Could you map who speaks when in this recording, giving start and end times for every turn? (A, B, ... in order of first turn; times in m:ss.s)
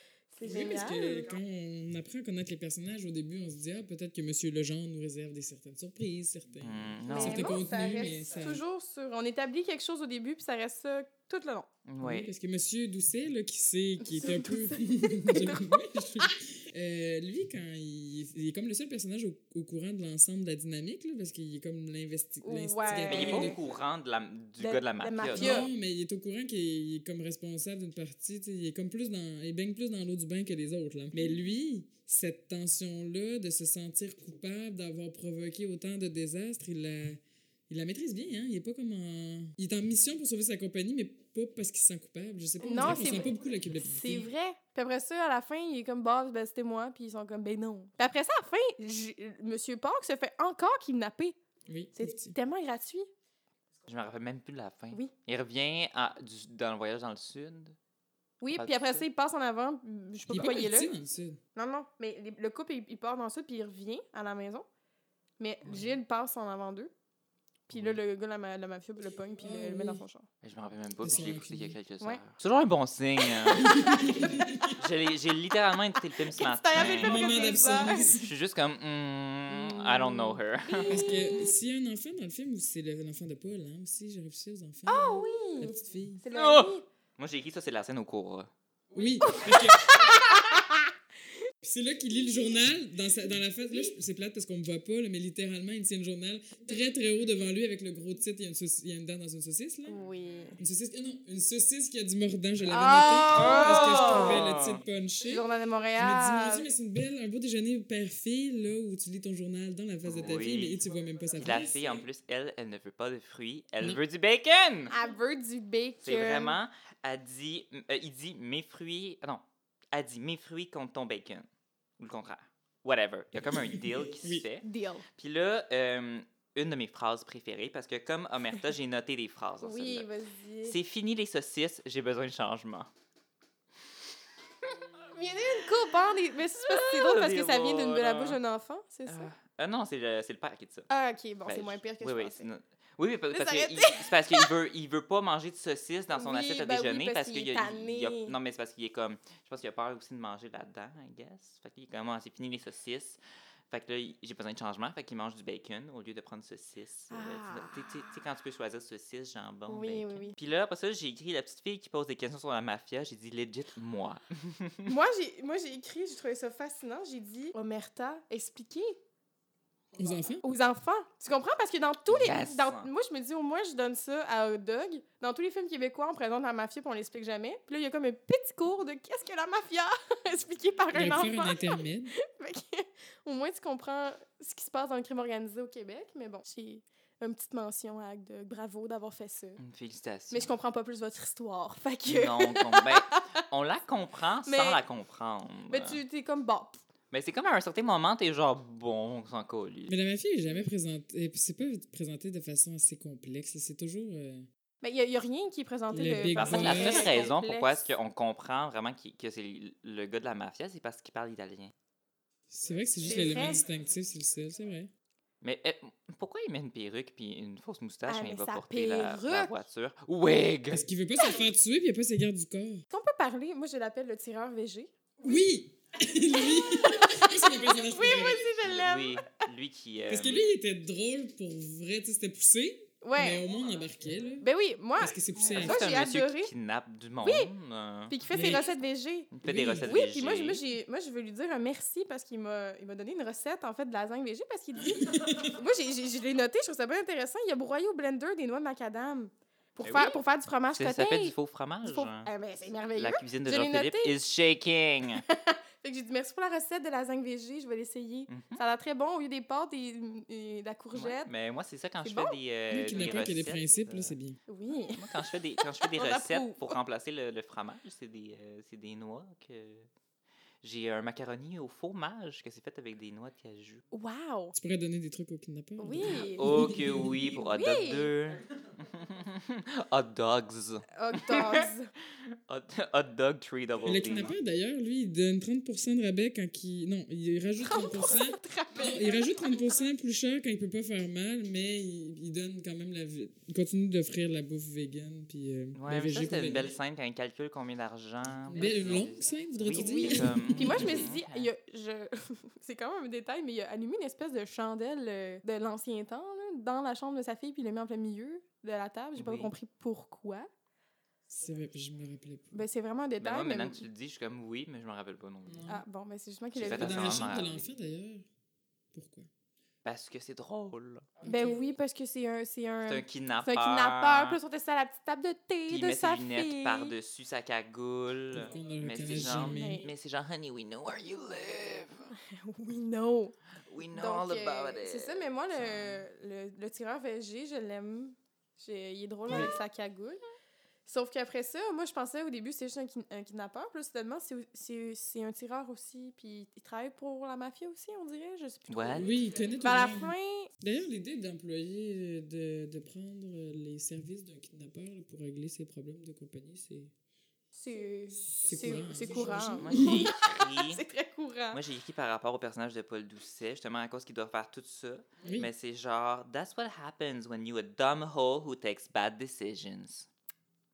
0:00.3-0:01.3 A
0:00.4-0:08.6 B
0:06.6-0:07.5 C
0:07.1-0:11.7 A
0:11.8-0:12.3 C
0:12.0-0:23.6 B
0:14.0-0:16.3 A
0:22.4-0:23.6 A
0:23.1-0:25.6 C
0:24.6-0:25.7 A
0:25.3-0:44.3 B
0:42.6-0:51.4 A
0:51.7-0:52.4 B
0:51.9-0:53.1 A
0:53.8-0:57.8 C
0:58.4-1:00.9 A
0:58.5-0:59.0 C
1:00.3-1:01.4 B
1:01.6-1:04.6 A
1:05.4-1:06.9 A
1:07.7-1:10.2 A
1:07.7-1:08.0 C
1:09.4-1:10.0 B
1:10.4-1:14.0 C
1:11.0-1:11.8 B
1:13.3-1:14.7 A
1:13.6-1:14.8 B
1:14.8-1:21.0 C
1:16.2-1:18.1 A
1:16.7-1:18.3 B
1:19.5-1:26.2 B
1:20.7-1:21.5 A
1:24.8-1:26.8 A
1:26.3-1:28.5 C
1:28.9-1:30.1 B
1:29.2-1:30.9 A
1:31.6-1:40.0 B
1:39.8-1:40.6 A
1:40.6-1:52.0 B
1:42.6-1:44.4 A
1:43.3-1:44.8 C
1:45.2-1:46.7 A
1:50.0-1:50.8 C
1:51.4-1:54.9 C
1:54.9-1:56.6 A
1:56.0-2:01.5 C
2:02.0-2:04.6 C
2:03.4-2:04.4 B
2:04.6-2:05.0 A
2:05.2-2:10.1 C
2:09.6-2:10.8 A
2:10.6-2:12.9 C
2:15.1-2:19.3 A
2:16.6-2:18.4 C
2:19.1-2:20.9 C
2:20.9-2:22.4 A
2:21.4-2:33.2 C
2:23.3-2:24.5 A
2:26.1-2:28.3 A
2:33.7-2:44.9 C
2:37.1-2:37.9 A
2:39.7-2:40.3 A
2:44.9-2:49.0 A
2:49.9-2:50.4 B
2:50.4-3:09.6 A
2:52.1-2:52.9 C
3:00.9-3:02.1 B
3:09.6-3:10.5 C
3:10.3-3:13.2 A
3:12.0-3:16.0 C
3:14.4-3:14.8 A
3:15.7-3:16.8 A
3:17.1-3:20.0 C
3:19.9-3:24.5 B
3:24.8-3:27.9 A
3:25.9-3:27.1 B
3:26.3-3:31.7 C
3:32.5-3:34.9 B
3:33.0-3:33.6 A
3:35.4-3:40.8 C
3:38.1-3:39.5 A
3:40.7-3:42.8 B
3:42.9-3:45.1 A
3:45.2-3:48.5 B
3:46.3-3:49.2 A
3:48.6-3:50.4 C
3:50.1-3:54.5 B
3:53.0-3:53.4 A
3:54.4-3:56.5 A
3:55.0-3:55.9 B
3:55.5-3:58.2 C
3:57.2-3:57.5 A
3:58.1-4:14.1 A
3:58.3-3:58.6 B
3:59.3-4:00.6 C
3:59.4-3:59.9 B
4:04.8-4:05.6 B
4:09.8-4:10.2 C
4:10.8-4:12.3 C
4:12.9-4:15.2 C
4:15.2-4:21.3 A
4:18.3-4:18.6 C
4:20.9-4:24.2 C
4:22.0-4:22.4 A
4:22.7-4:24.4 B
4:24.5-4:26.8 A
4:24.9-4:29.9 C
4:30.6-4:33.8 C
4:33.9-4:34.5 A
4:34.5-4:37.3 B
4:35.8-4:38.1 A
4:36.1-4:41.7 C
4:40.9-4:41.9 A
4:42.5-4:44.3 C
4:43.8-4:56.7 B
4:47.6-4:49.3 A
4:55.7-5:01.5 C
4:58.4-5:01.0 B
4:59.7-5:10.5 A
5:09.2-5:09.5 C
5:11.3-5:12.6 B
5:12.5-5:13.8 A
5:13.2-5:15.7 C
5:15.4-5:15.8 B
5:15.7-5:17.4 A
5:16.5-5:18.2 B
5:16.6-5:17.6 C
5:18.9-5:19.3 B
5:19.8-5:21.1 C
5:21.2-5:21.6 B
5:21.2-5:26.9 A
5:22.9-5:24.4 C
5:25.7-5:32.1 C
5:28.3-5:29.9 B
5:29.2-5:29.9 A
5:32.2-5:33.3 A
5:33.7-5:36.0 C
5:33.9-5:40.2 A
5:39.3-5:39.5 B
5:40.9-5:50.5 A
5:48.7-5:49.1 C
5:48.9-5:56.9 B
5:57.6-6:01.6 A
5:58.4-6:00.1 B
5:59.6-6:00.8 C
6:01.5-6:10.1 C
6:05.2-6:05.5 B